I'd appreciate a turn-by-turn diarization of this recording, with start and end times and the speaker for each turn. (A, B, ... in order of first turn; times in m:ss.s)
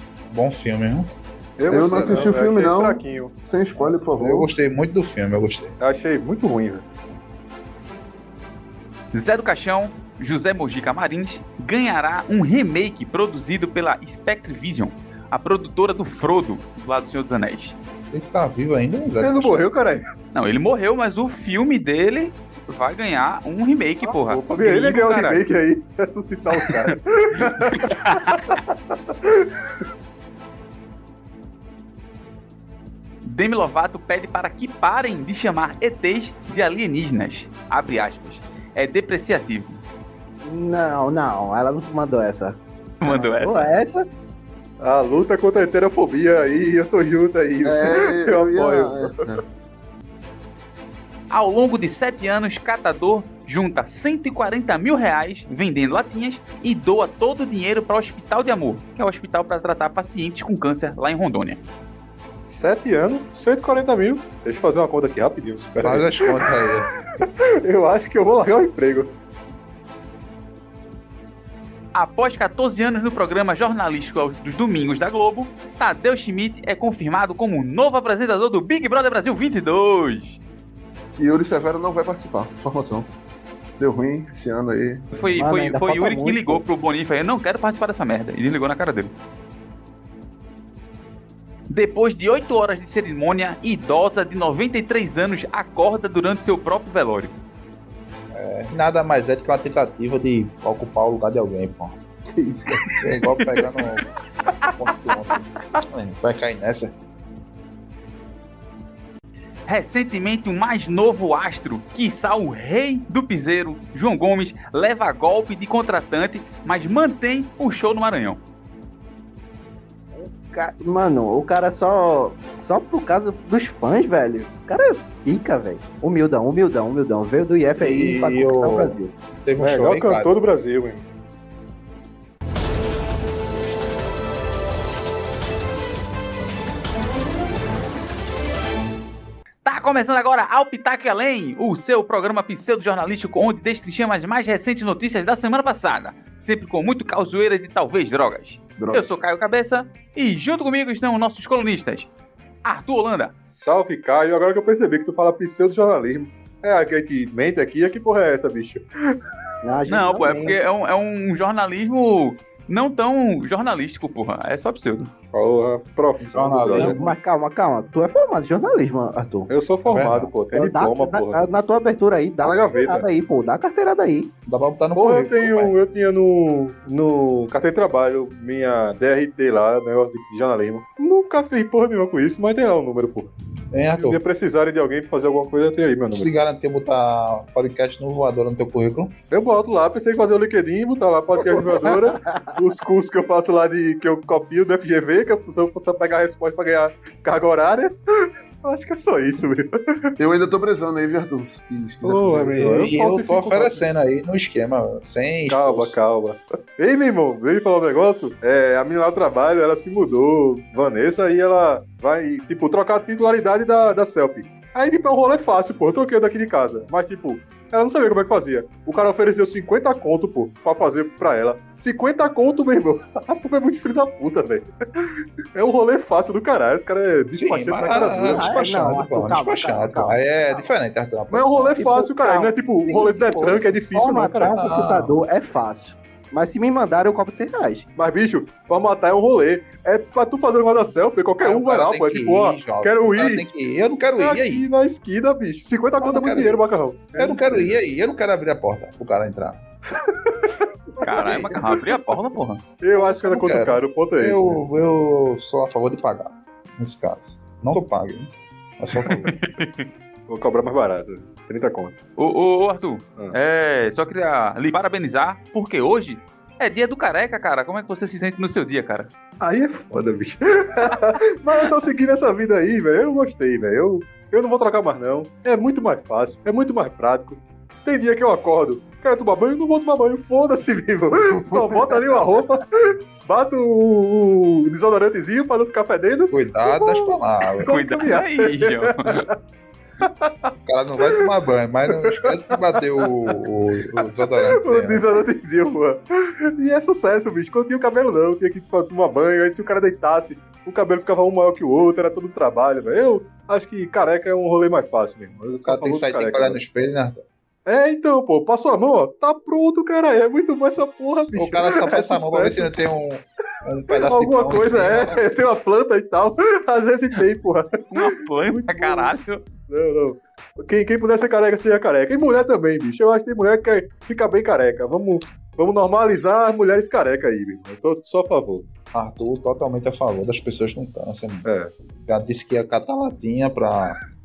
0:00.3-0:01.1 A
0:01.6-0:03.3 B
0:01.7-0:04.5 C
0:03.8-0:05.8 A
0:05.8-0:06.8 B
0:09.1-0:17.8 D
0:18.1-0:19.6 A
0:19.2-0:20.0 B
0:20.3-0:25.4 D
0:24.0-0:29.7 B
0:26.7-0:28.6 D
0:33.2-0:39.8 D
0:40.4-0:44.1 E
0:43.0-0:43.7 D
0:44.8-0:49.1 B
0:47.6-0:49.4 C
0:51.3-1:01.6 D
1:02.5-1:06.5 B
1:05.8-1:06.9 A
1:07.1-1:09.1 B
1:11.9-1:20.4 D
1:21.1-1:23.1 C
1:23.8-1:25.1 C
1:25.1-1:29.1 D
1:25.3-1:26.6 E
1:31.7-1:37.4 D
1:38.3-1:42.0 A
1:42.3-1:43.0 C
1:43.0-1:44.1 A
1:44.7-1:46.9 A
1:49.7-1:58.4 D
2:00.1-2:09.1 E
2:07.8-2:10.3 A
2:09.6-2:11.0 B
2:19.6-2:32.1 D
2:28.8-2:29.1 C
2:32.6-2:33.3 D
2:33.5-2:38.8 B
2:39.6-2:40.6 E
2:39.9-2:45.1 D
2:45.3-2:47.0 B
2:46.2-2:47.1 A
2:46.7-2:49.5 E
2:49.5-2:51.4 B
2:49.9-2:50.3 A
2:50.5-2:54.3 E
2:52.4-2:53.1 B
2:54.5-2:55.8 A
2:55.0-3:03.3 B
3:03.7-3:04.2 A
3:04.0-3:06.3 B
3:06.1-3:09.1 A
3:09.3-3:20.1 B
3:12.2-3:12.6 E
3:20.2-3:22.8 C
3:22.0-3:23.8 B
3:22.5-3:26.0 A
3:25.5-3:48.6 B
3:47.4-3:51.8 A
3:48.1-3:50.2 E
3:51.3-3:54.7 B
3:51.8-3:57.9 E
3:54.4-3:55.1 A
3:58.0-4:03.5 B
4:01.4-4:04.7 A
4:04.2-4:07.8 B
4:06.0-4:06.6 A
4:07.2-4:09.6 A
4:10.1-4:10.7 B
4:11.0-4:12.6 D
4:12.8-4:14.6 B
4:13.0-4:19.3 A
4:19.1-4:19.3 B
4:19.3-4:19.9 D
4:20.3-4:22.0 B
4:22.2-4:29.1 D
4:29.4-4:49.3 B
4:46.3-4:47.8 A
4:47.7-4:49.3 D
4:50.0-4:50.5 B
4:50.7-4:55.2 A
4:51.0-4:51.3 B
4:51.9-4:53.4 B
4:54.0-5:06.6 B
5:05.6-5:07.2 A
5:07.7-5:12.7 B
5:11.4-5:15.2 A
5:14.0-5:19.1 B
5:17.9-5:19.4 D
5:19.7-5:28.7 B
5:28.9-5:31.5 A
5:31.4-5:31.7 B
5:32.1-5:34.0 A